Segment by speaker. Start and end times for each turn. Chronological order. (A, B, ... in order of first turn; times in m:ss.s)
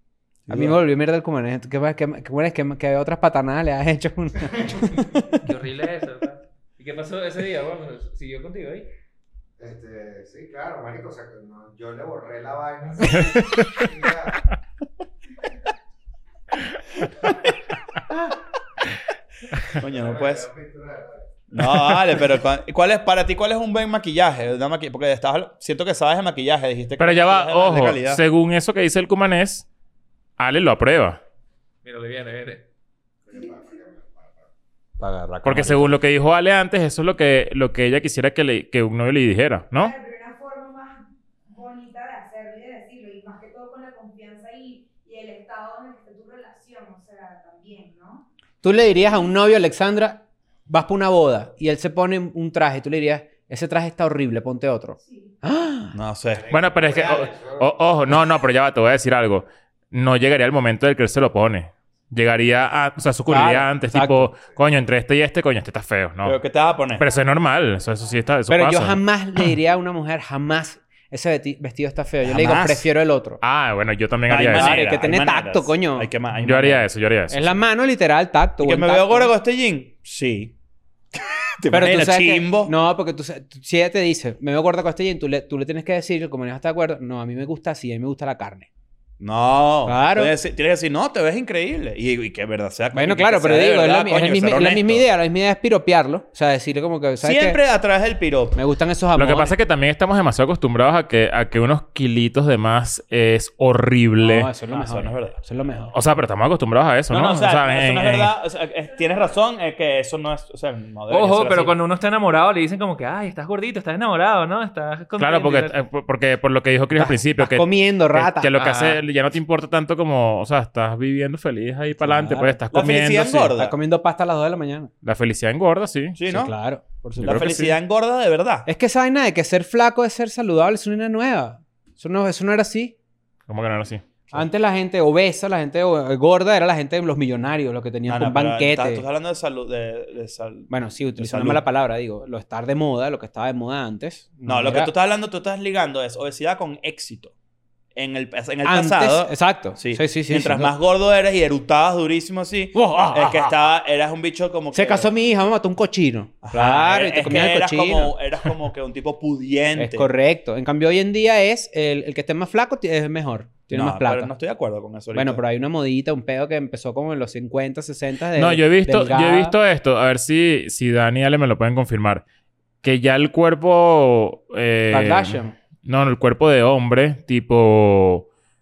0:00.5-0:00.8 A
0:00.5-0:05.1 B
0:05.4-0:08.9 C
0:09.6-0:14.5 D
0:13.4-0:13.7 E
0:19.7-0:20.5 A
0:19.8-0:21.3 D
0:21.5-0:28.2 A
0:27.0-0:29.7 E
0:30.4-0:31.2 E
0:31.8-0:32.6 C
0:33.3-0:34.5 D
0:35.0-0:36.0 A
0:35.4-0:39.9 E
0:39.7-0:48.2 F
0:48.6-0:56.0 B
0:55.0-0:55.3 F
0:55.9-0:56.5 A
0:56.3-0:57.9 D
0:56.5-1:06.4 E
1:03.3-1:04.3 B
1:06.2-1:07.0 A
1:07.0-1:09.0 E
1:08.5-1:13.4 B
1:12.2-1:12.9 A
1:13.4-1:14.9 E
1:14.3-1:16.8 A
1:14.5-1:16.1 B
1:16.4-1:17.6 E
1:17.3-1:19.3 B
1:18.6-1:20.5 A
1:21.1-1:22.7 A
1:21.7-1:28.7 B
1:29.2-1:35.1 A
1:29.8-1:30.3 B
1:32.9-1:37.6 B
1:37.2-1:38.6 A
1:38.6-1:39.5 B
1:39.2-1:44.5 E
1:44.2-1:45.9 B
1:44.7-1:45.4 A
1:45.9-1:48.3 E
1:47.1-1:51.7 A
1:48.9-1:49.3 F
1:51.1-1:55.8 C
1:55.2-2:03.5 E
1:57.0-1:58.5 B
1:58.6-1:59.0 C
2:02.0-2:02.6 B
2:02.7-2:03.8 A
2:03.6-2:04.9 B
2:05.0-2:06.2 E
2:06.2-2:06.5 A
2:06.3-2:07.6 B
2:07.2-2:07.8 E
2:07.2-2:08.7 A
2:08.7-2:13.0 B
2:13.5-2:14.0 E
2:14.3-2:19.0 B
2:18.1-2:21.6 A
2:20.7-2:24.9 B
2:24.5-2:27.3 A
2:28.0-2:35.1 A
2:28.6-2:30.7 B
2:32.7-2:33.6 B
2:34.7-2:38.2 B
2:36.4-2:40.1 A
2:39.8-2:44.3 B
2:43.7-2:45.4 A
2:45.1-2:49.6 B
2:48.4-2:52.2 E
2:52.8-2:58.3 E
2:54.9-2:55.5 B